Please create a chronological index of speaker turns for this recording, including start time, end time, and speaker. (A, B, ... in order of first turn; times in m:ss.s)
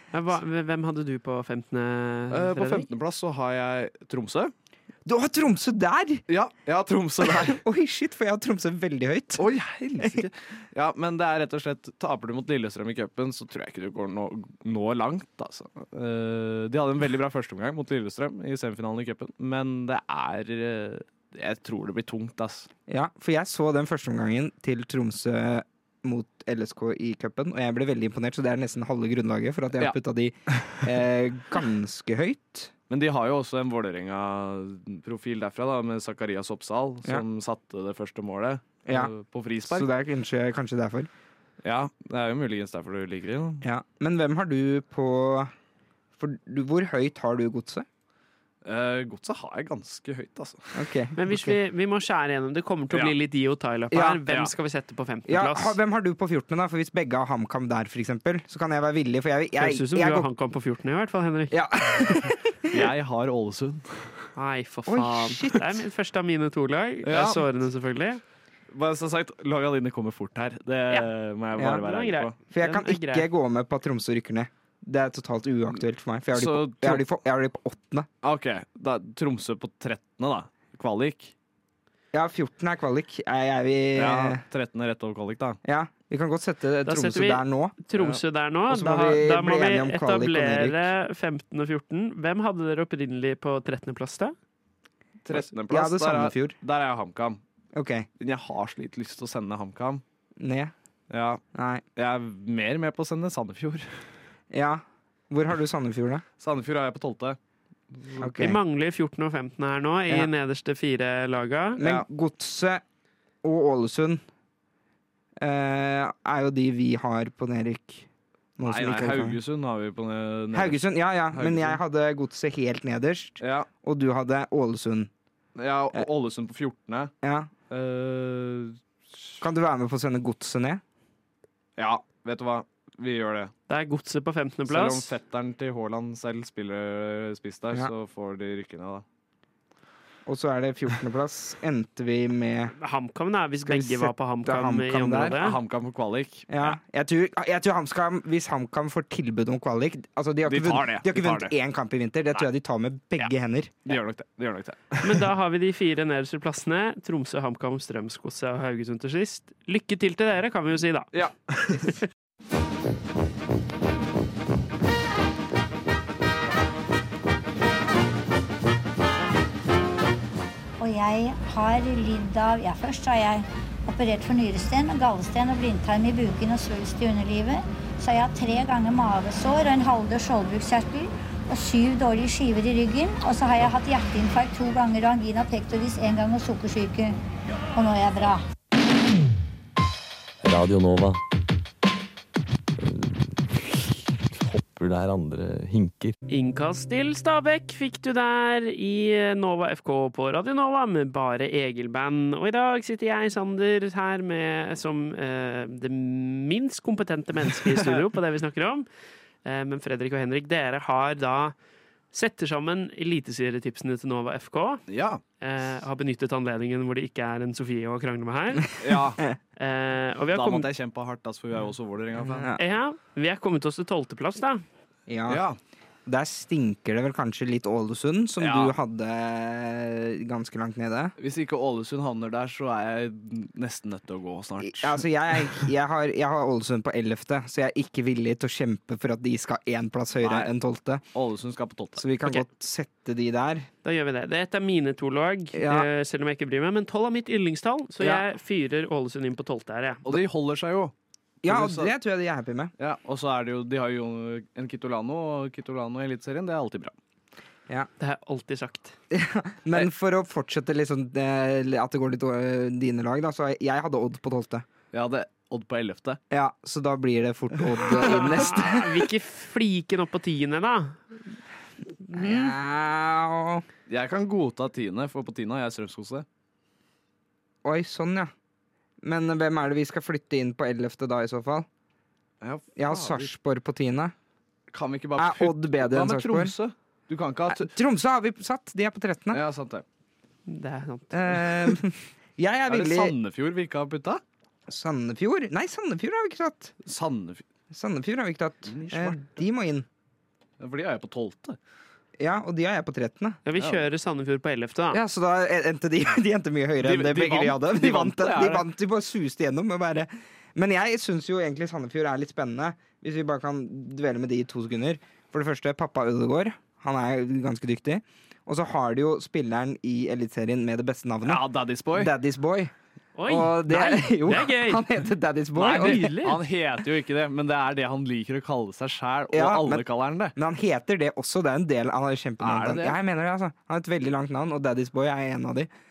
0:00.1-0:02.9 A
0:02.3-0:04.5 B
0:05.0-0:06.2 C
0:06.3-0:07.6 B
0:07.2-0:10.3 C
0:09.4-0:22.7 B
0:22.9-0:32.7 C
0:32.9-0:39.9 B
0:38.9-0:39.1 C
0:39.6-0:41.1 C
0:41.6-0:43.6 B
0:43.6-0:45.5 C
0:46.2-0:47.8 C
0:48.6-0:50.8 B
0:50.7-0:51.6 C
0:51.2-0:55.8 A
0:53.9-0:54.2 C
0:55.3-1:00.3 C
0:59.6-1:02.2 A
1:01.5-1:02.9 C
1:02.7-1:04.1 B
1:04.3-1:08.2 A
1:04.9-1:05.7 C
1:07.0-1:07.4 B
1:08.7-1:12.3 B
1:11.8-1:13.3 A
1:12.5-1:18.1 C
1:16.3-1:17.0 B
1:18.2-1:21.3 B
1:22.1-1:24.4 C
1:24.0-1:25.6 B
1:25.6-1:27.7 C
1:26.8-1:34.3 A
1:27.9-1:28.2 B
1:28.7-1:30.9 C
1:35.2-1:37.4 B
1:35.3-1:36.6 C
1:37.7-1:38.1 C
1:38.2-1:40.0 B
1:40.4-1:40.7 C
1:41.1-1:41.4 B
1:41.5-1:41.8 C
1:42.0-1:43.9 B
1:44.5-1:46.2 C
1:46.4-1:47.4 B
1:47.9-1:48.3 B
1:48.2-1:48.6 C
1:48.4-1:51.8 A
1:51.8-1:52.8 C
1:53.4-1:54.2 C
1:55.4-1:59.4 C
1:58.6-2:01.8 B
2:00.5-2:05.1 C
2:03.4-2:03.7 B
2:05.6-2:07.1 B
2:07.2-2:07.5 C
2:07.7-2:09.4 B
2:09.4-2:10.8 C
2:11.8-2:13.5 B
2:13.7-2:15.1 A
2:14.7-2:19.0 B
2:20.2-2:22.7 C
2:22.8-2:25.6 A
2:23.6-2:25.4 C
2:25.4-2:26.7 B
2:26.5-2:33.7 C
2:30.4-2:31.5 B
2:33.8-2:35.3 B
2:35.0-2:41.1 A
2:41.1-2:42.0 B
2:50.8-3:07.2 D
3:07.7-3:08.4 D
3:10.4-3:11.2 E
3:12.8-3:16.1 E
3:16.3-3:28.9 A
3:27.7-3:28.0 B
3:29.4-3:31.6 A
3:32.1-3:34.8 A
3:34.9-3:35.2 B
3:35.4-3:38.7 A
3:38.8-3:39.2 B
3:39.6-3:40.6 A
3:40.3-3:42.5 B
3:42.2-3:42.6 C
3:42.6-3:44.6 A
3:45.1-3:45.4 C
3:45.3-3:45.6 B
3:46.0-3:51.1 C
3:48.4-3:48.7 B
3:51.2-3:55.6 B
3:54.6-4:01.0 C
4:00.2-4:00.5 B
4:01.1-4:02.1 B
4:02.0-4:03.7 C
4:03.8-4:10.1 A
4:05.5-4:05.9 C
4:10.0-4:10.9 B
4:11.4-4:11.9 B
4:11.4-4:12.7 C
4:12.8-4:16.9 B
4:18.0-4:18.9 A
4:19.1-4:24.6 C
4:24.9-4:26.2 B
4:26.3-4:29.0 C
4:27.9-4:31.1 A
4:32.0-4:32.5 A
4:32.1-4:33.6 C
4:33.9-4:36.2 B
4:37.6-4:38.3 C
4:39.0-4:41.7 C
4:42.4-4:43.3 B
4:42.8-4:44.1 C
4:44.7-4:47.7 B
4:45.2-4:46.5 C
4:47.5-4:49.4 C
4:49.3-4:49.8 B
4:50.5-4:51.4 A
4:51.1-4:53.1 C
4:52.7-4:54.2 B
4:54.7-4:56.7 C
4:56.8-4:57.4 B
4:57.7-4:59.8 C
4:58.7-4:59.3 B
5:00.6-5:01.6 B
5:02.2-5:03.4 C
5:03.4-5:05.0 A
5:03.6-5:03.8 B
5:04.9-5:22.7 C
5:06.8-5:08.6 B
5:21.2-5:22.1 B
5:23.2-5:24.9 A
5:23.3-5:26.1 C
5:25.6-5:30.3 B
5:25.6-5:26.4 A
5:29.3-5:35.7 C
5:32.4-5:33.0 B